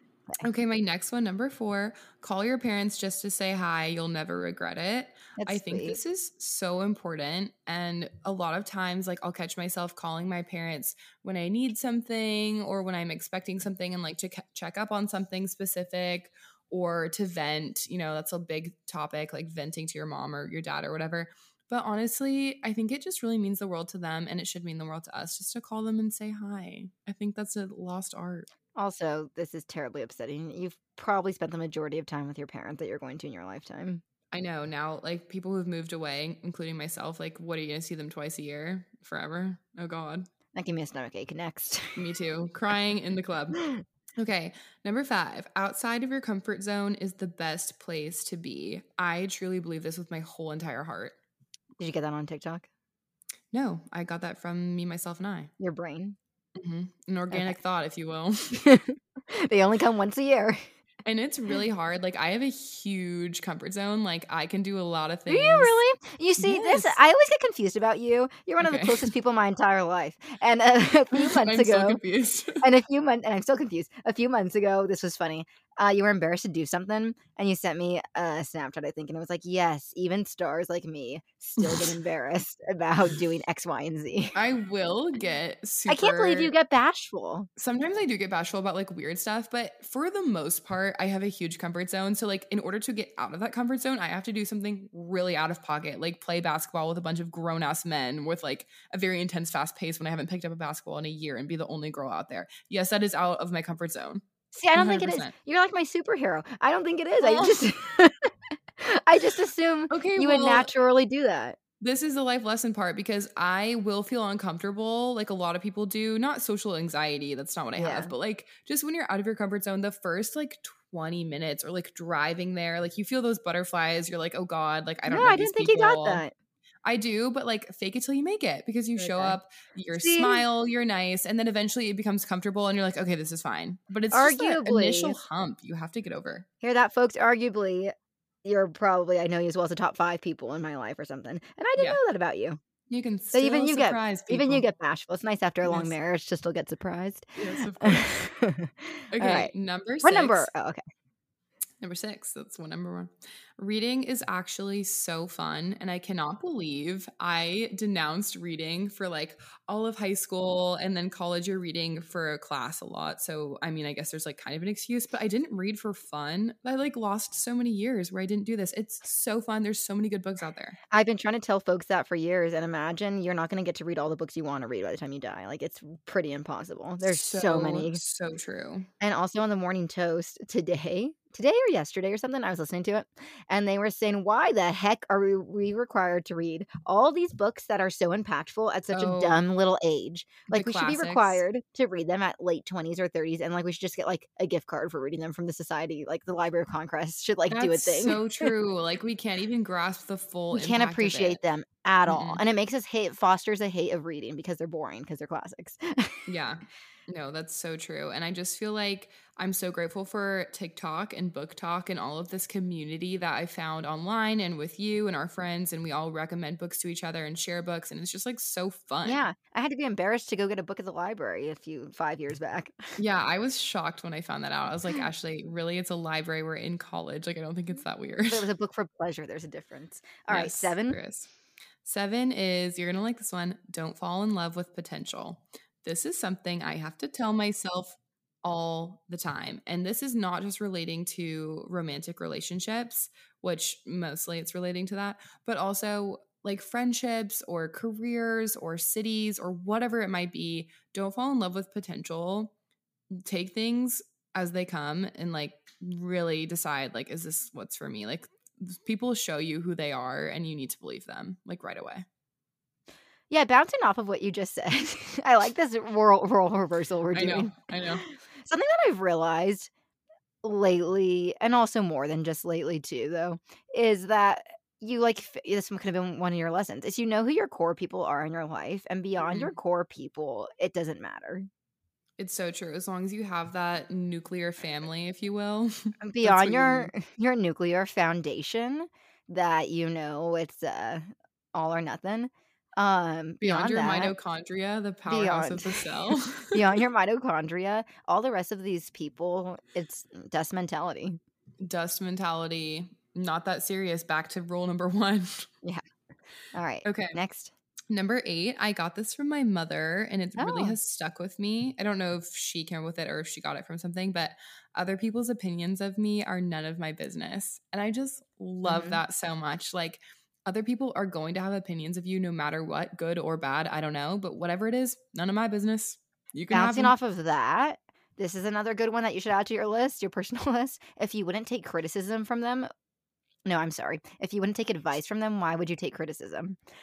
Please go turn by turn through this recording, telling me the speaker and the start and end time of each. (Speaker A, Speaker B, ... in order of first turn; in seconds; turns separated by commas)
Speaker A: 0.4-28.5, Speaker B: 5.4-6.0, Speaker B: 28.7-34.0, Speaker A: 34.3-40.3, Speaker B: 40.5-42.0, Speaker A: 41.9-43.6, Speaker A: 44.2-51.1, Speaker B: 51.8-52.7, Speaker A: 53.5-55.5, Speaker B: 55.6-56.2, Speaker A: 56.5-58.6, Speaker B: 57.3-57.6, Speaker B: 58.5-60.7, Speaker A: 61.0-65.7, Speaker B: 65.3-72.0, Speaker A: 66.4-67.0, Speaker A: 68.6-69.1, Speaker A: 71.1-72.6, Speaker B: 72.6-84.3, Speaker A: 81.6-81.9, Speaker A: 84.3-86.5, Speaker B: 85.9-87.5, Speaker A: 87.6-104.2, Speaker B: 104.5-111.6, Speaker A: 104.7-105.3, Speaker A: 107.2-107.6, Speaker A: 109.9-110.7, Speaker A: 111.8-126.2, Speaker B: 117.8-118.1, Speaker B: 125.1-126.3, Speaker A: 126.8-136.4, Speaker B: 129.0-129.4, Speaker B: 129.9-130.4, Speaker B: 134.1-135.2, Speaker B: 136.6-137.9, Speaker B: 138.4-142.6, Speaker A: 142.9-144.7, Speaker B: 143.3-147.3, Speaker A: 145.7-145.9, Speaker A: 147.3-148.1, Speaker B: 147.8-149.5, Speaker A: 149.1-150.5, Speaker B: 150.0-150.8, Speaker A: 151.8-170.8, Speaker B: 170.9-178.0, Speaker A: 177.0-178.9, Speaker B: 179.0-198.5, Speaker A: 188.9-189.4, Speaker A: 190.5-191.4, Speaker A: 197.5-201.4, Speaker B: 200.5-206.2, Speaker A: 202.1-202.4, Speaker A: 206.3-219.2, Speaker B: 219.0-222.9, Speaker A: 223.0-228.5, Speaker B: 228.3-231.0, Speaker A: 230.3-231.3, Speaker A: 231.8-252.5, Speaker A: 253.1-262.1, Speaker B: 263.3-269.7, Speaker A: 267.1-268.1, Speaker B: 270.4-281.5, Speaker A: 279.2-279.5, Speaker A: 282.2-286.9, Speaker B: 286.0-294.1, Speaker A: 293.4-296.8, Speaker B: 295.1-301.2, Speaker A: 301.6-305.5, Speaker B: 306.5-307.5, Speaker A: 306.8-307.2, Speaker A: 307.9-326.9, Speaker B: 310.4-310.8, Speaker B: 318.6-319.0, Speaker B: 326.5-332.7, Speaker B: 333.4-336.6